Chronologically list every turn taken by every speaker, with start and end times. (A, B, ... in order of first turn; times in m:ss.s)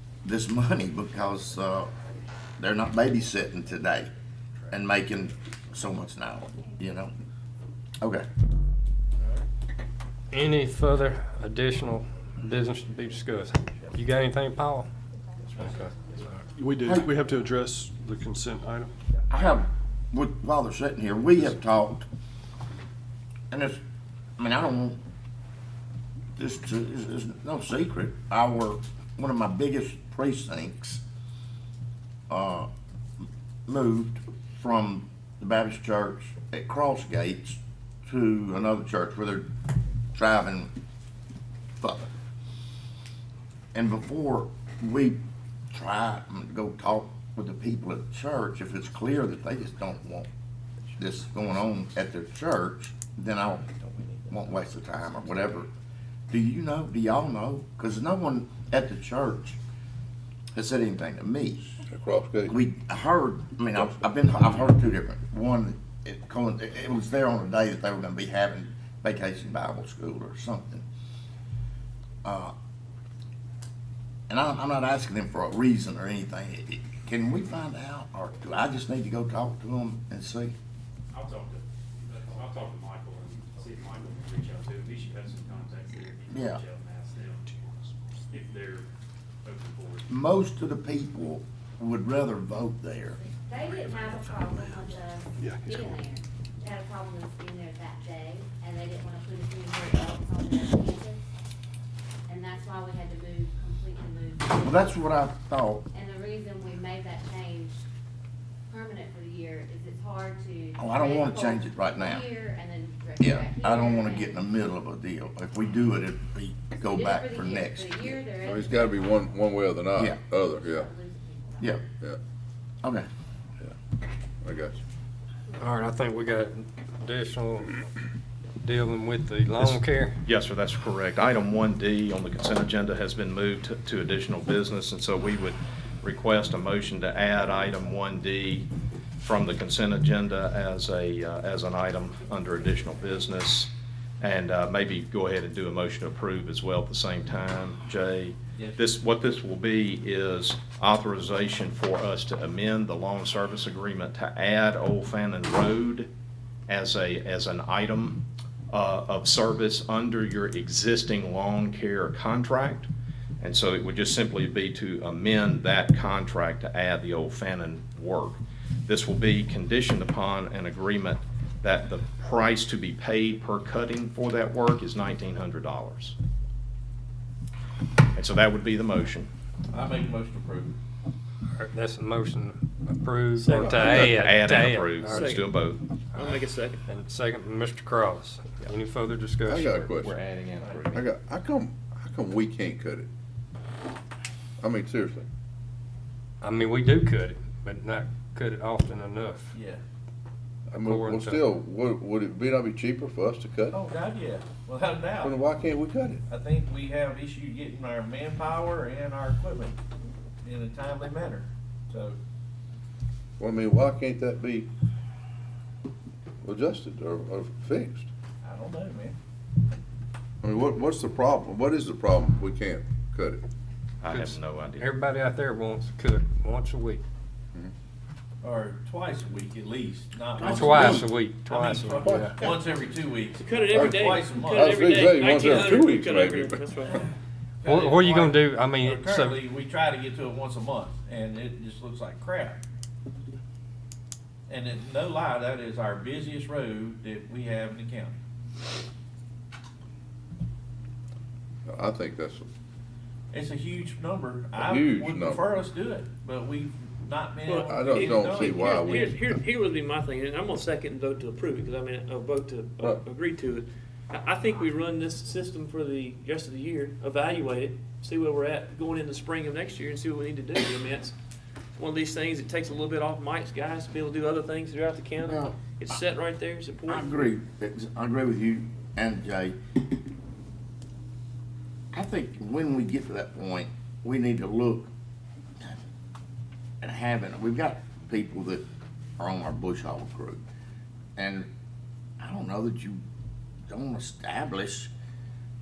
0:00.2-0:01.9 A
0:02.6-0:04.1 A
0:04.7-0:07.1 A
0:08.0-0:08.3 A
0:10.3-0:14.9 B
0:15.5-0:15.9 C
0:16.5-0:18.9 D
0:16.8-0:17.1 A
0:19.3-0:22.0 A
0:23.5-0:23.8 A
0:24.4-0:25.0 A
0:26.4-0:31.0 A
0:32.3-0:32.7 A
0:33.7-0:39.5 A
0:40.1-0:40.7 A
0:41.8-0:42.1 A
0:43.7-0:45.2 A
0:45.7-0:50.3 A
0:51.0-0:53.7 A
0:53.9-0:54.3 E
0:54.3-0:55.7 A
0:56.3-0:59.6 A
1:00.5-1:01.8 A
1:01.9-1:02.5 F
1:02.5-1:10.8 A
1:12.2-1:12.5 A
1:14.3-1:20.5 A
1:21.1-1:21.6 G
1:22.1-1:27.6 G
1:26.3-1:26.6 A
1:28.3-1:28.8 G
1:29.5-1:30.0 G
1:30.1-1:33.2 A
1:33.2-1:41.3 C
1:35.4-1:36.0 D
1:42.3-1:44.9 C
1:44.6-1:45.9 A
1:45.9-1:47.9 C
1:48.7-1:54.4 C
1:50.8-1:52.3 A
1:53.2-1:58.2 A
1:56.8-1:59.3 C
1:58.4-2:00.9 F
2:00.4-2:01.8 C
2:04.4-2:04.8 F
2:05.6-2:07.9 B
2:08.6-2:10.2 B
2:09.6-2:18.7 H
2:19.2-2:23.7 H
2:24.2-2:36.1 H
2:36.7-2:42.9 H
2:43.4-2:56.2 H
2:58.2-2:59.3 H
2:59.7-3:00.8 E
3:01.6-3:05.4 B
3:03.4-3:04.2 I
3:03.5-3:03.8 F
3:03.8-3:05.8 H
3:05.1-3:05.5 I
3:06.1-3:06.8 I
3:06.9-3:10.2 B
3:09.5-3:10.2 F
3:10.9-3:13.1 F
3:14.6-3:15.3 F
3:16.4-3:19.6 B
3:19.5-3:19.8 E
3:20.7-3:23.8 F
3:20.7-3:21.4 B
3:23.7-3:25.4 E
3:25.2-3:26.2 F
3:26.3-3:29.8 E
3:30.4-3:32.2 E
3:33.4-3:34.7 F
3:36.4-3:38.1 F
3:38.4-3:39.2 E
3:40.4-3:43.4 F
3:44.0-3:44.9 H
3:44.1-3:47.0 B
3:48.4-3:55.2 E
3:50.4-3:52.4 B
3:50.4-3:51.0 F
3:51.9-3:52.6 F
3:53.3-3:57.0 I
3:53.7-3:56.6 F
3:57.6-4:02.6 E
3:57.6-3:59.5 B
4:04.5-4:08.2 E
4:11.7-4:12.5 F
4:13.3-4:18.7 E
4:14.6-4:15.4 F
4:17.4-4:31.1 I
4:17.6-4:19.3 F
4:31.8-4:37.3 I
4:35.2-4:35.7 A
4:36.9-4:39.6 A
4:41.9-4:44.9 A
4:46.8-4:48.6 A
4:49.2-4:50.4 A
4:51.2-4:51.5 A
4:52.2-4:53.0 A
4:53.7-4:54.9 A